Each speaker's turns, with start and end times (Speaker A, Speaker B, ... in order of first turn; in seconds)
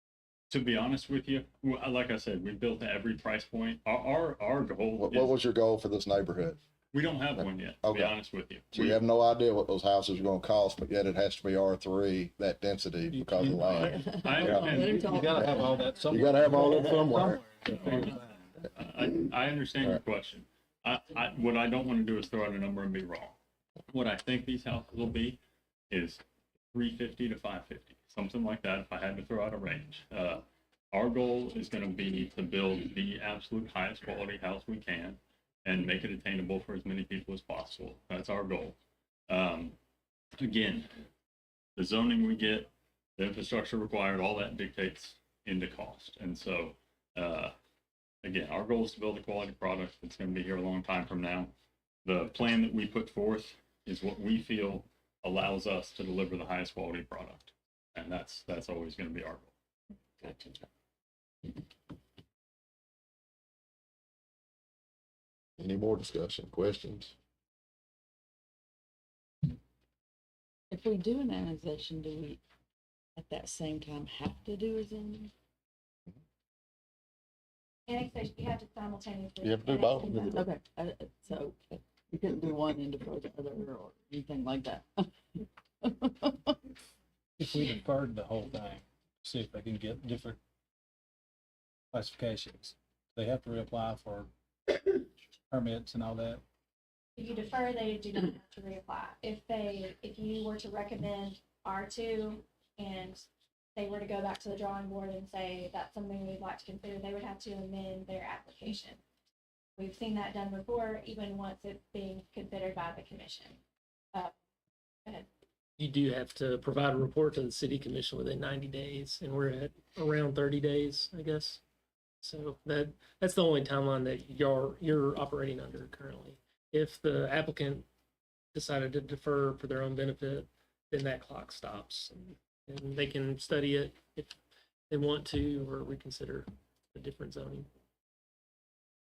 Speaker A: 0.5-5.4, 6.9-9.0, 14.2-15.1, 17.7-23.4, 23.9-26.2, 26.7-38.8, 39.3-39.8, 40.4-40.9, 41.8-47.5, 48.2-51.5, 52.0-59.5
Speaker B: 5.0-6.6, 7.3-8.2, 8.7-14.8, 15.4-17.4, 65.6-67.1, 79.4-80.4
Speaker C: 13.1-18.3, 87.4-90.4, 91.9-94.3, 95.5-96.4
Speaker D: 13.9-15.9, 60.2-60.7, 70.7-72.4, 73.2-75.3, 80.1-85.2, 85.8-86.6
Speaker E: 77.9-80.3, 97.2-109.0, 109.8-113.6
Speaker F: 115.8-121.6, 122.2-127.9, 128.5-134.4, 134.9-137.7